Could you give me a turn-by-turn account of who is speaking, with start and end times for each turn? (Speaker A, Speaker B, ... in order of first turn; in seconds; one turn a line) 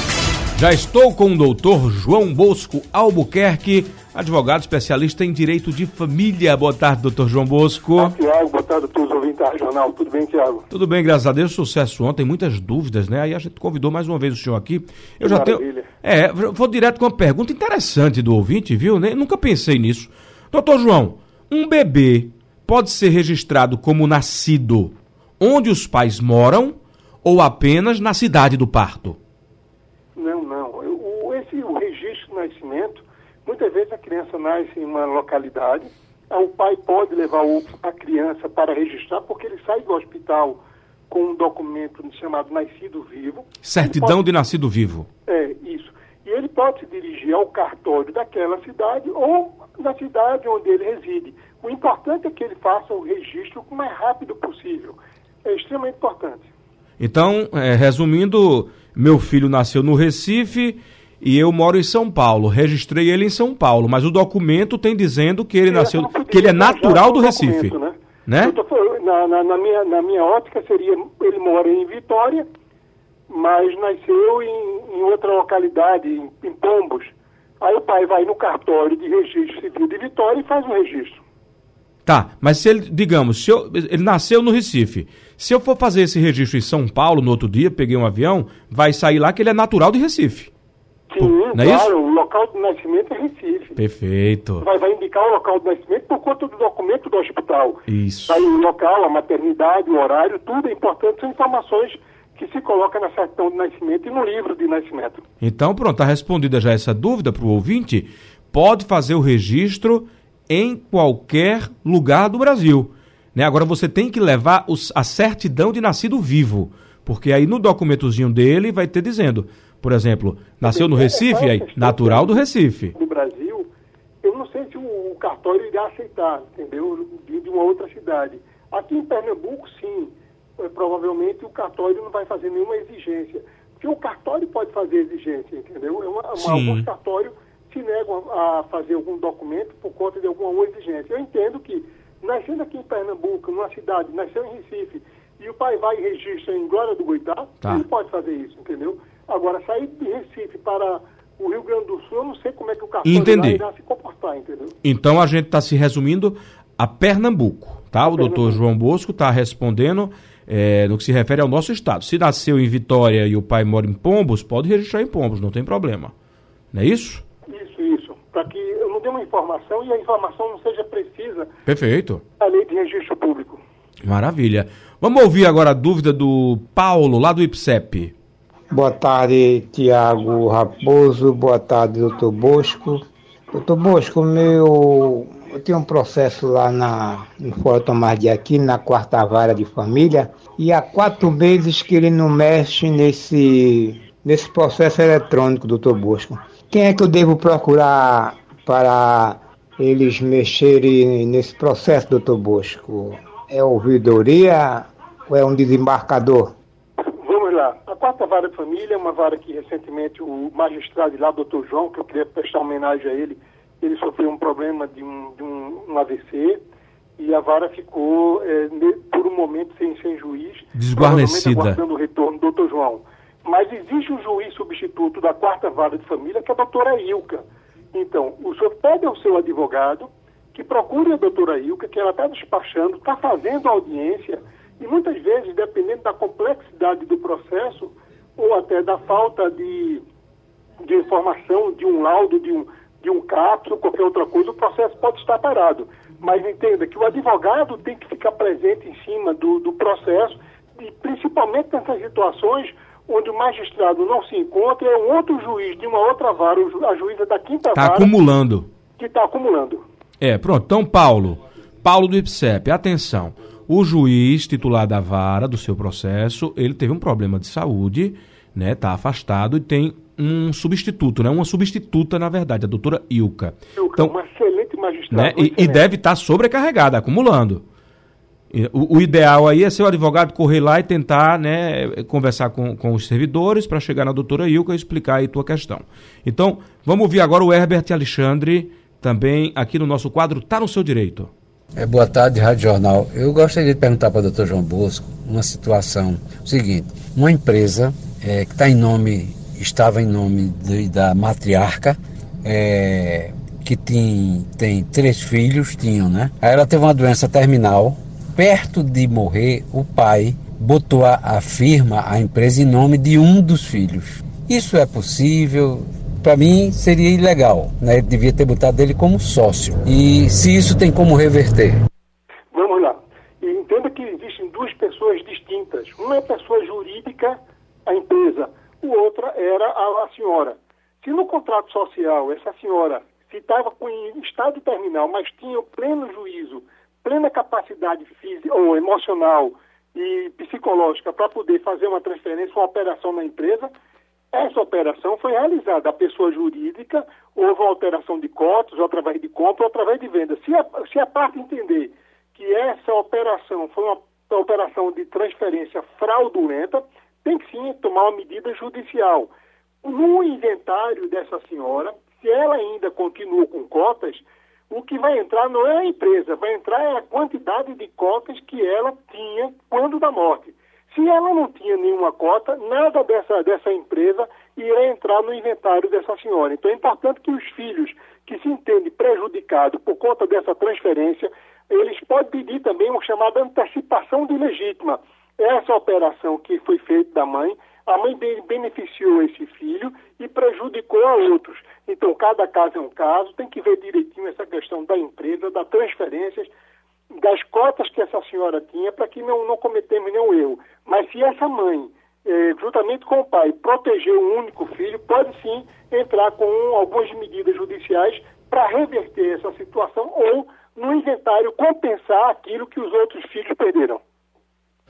Speaker A: 0.6-8.2
Speaker B: 8.0-10.6
Speaker A: 10.7-29.2
Speaker B: 15.2-15.9
Speaker B: 30.1-44.2
Speaker A: 43.6-45.1
Speaker B: 45.3-56.5
Speaker A: 57.0-67.7
Speaker B: 65.7-72.4
Speaker A: 68.3-68.5
Speaker B: 73.3-81.2
Speaker A: 82.0-90.5
Speaker B: 91.1-93.8
Speaker A: 91.2-91.9
Speaker A: 93.8-94.6
Speaker B: 94.6-105.2
Speaker A: 97.9-98.5
Speaker A: 105.4-122.9
Speaker B: 120.6-123.7
Speaker B: 124.2-154.8
Speaker A: 136.4-136.8
Speaker A: 153.0-153.6
Speaker A: 154.8-166.1
Speaker B: 158.1-158.6
Speaker A: 166.7-167.2
Speaker B: 167.5-171.5
Speaker A: 171.7-172.2
Speaker B: 172.4-173.6
Speaker A: 174.0-178.1
Speaker C: 178.7-206.5
Speaker B: 207.0-216.6
Speaker B: 217.2-240.0
Speaker A: 220.7-221.8
Speaker B: 240.8-258.1
Speaker A: 257.7-258.7
Speaker B: 259.0-259.8
Speaker A: 260.2-274.1
Speaker B: 273.8-275.9
Speaker A: 275.1-277.6
Speaker A: 278.5-291.3
Speaker D: 291.8-321.8
Speaker B: 322.5-343.7
Speaker B: 344.3-359.3
Speaker B: 359.8-396.5
Speaker B: 397.1-414.0